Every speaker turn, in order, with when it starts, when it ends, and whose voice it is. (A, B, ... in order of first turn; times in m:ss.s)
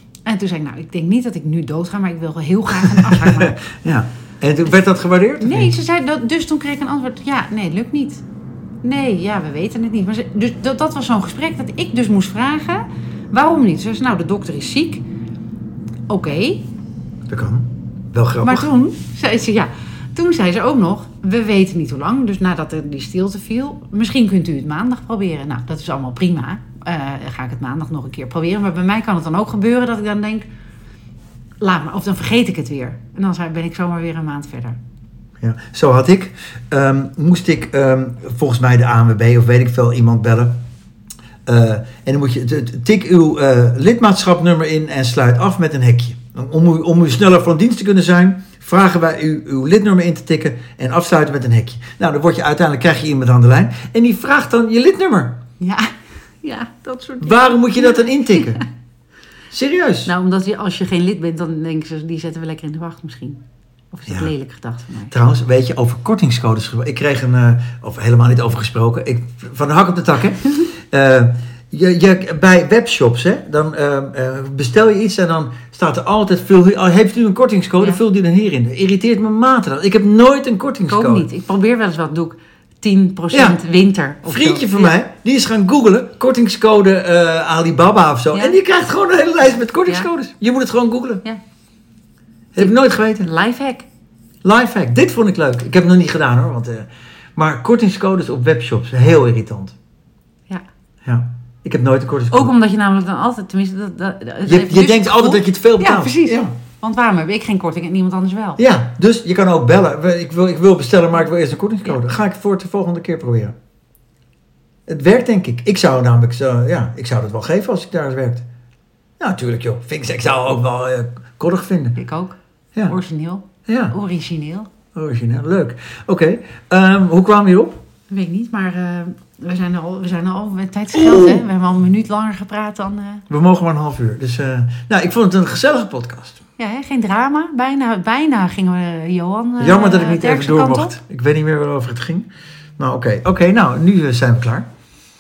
0:00.2-0:03.6 A
0:02.8-0:05.7 B
0:05.4-0:08.2 A
0:08.8-0:15.0 A
0:16.1-0:16.6 A
0:17.3-0:18.7 B
0:18.4-0:30.5 A
0:31.6-0:34.8 A
0:35.4-0:40.5 B
0:41.4-0:55.4 B
0:55.6-0:58.6 A
0:57.2-0:58.6 B
0:59.5-1:00.1 B
1:00.0-1:03.4 A
1:03.9-1:05.1 A
1:05.1-1:21.3 B
1:20.9-1:25.0 A
1:23.3-1:23.6 B
1:24.2-1:31.2 B
1:28.3-1:28.6 A
1:32.5-1:33.3 B
1:32.6-1:33.9 A
1:34.4-1:39.8 B
1:41.0-1:42.5 B
1:42.3-1:48.6 A
1:44.4-1:46.5 B
1:48.6-1:53.5 B
1:54.9-1:58.4 B
1:59.2-2:02.0 B
2:02.0-2:04.7 A
2:03.7-2:04.0 B
2:04.9-2:07.8 B
2:08.1-2:13.2 A
2:11.0-2:11.4 B
2:13.3-2:16.4 B
2:16.6-2:21.0 A
2:19.6-2:22.3 B
2:22.8-2:24.6 B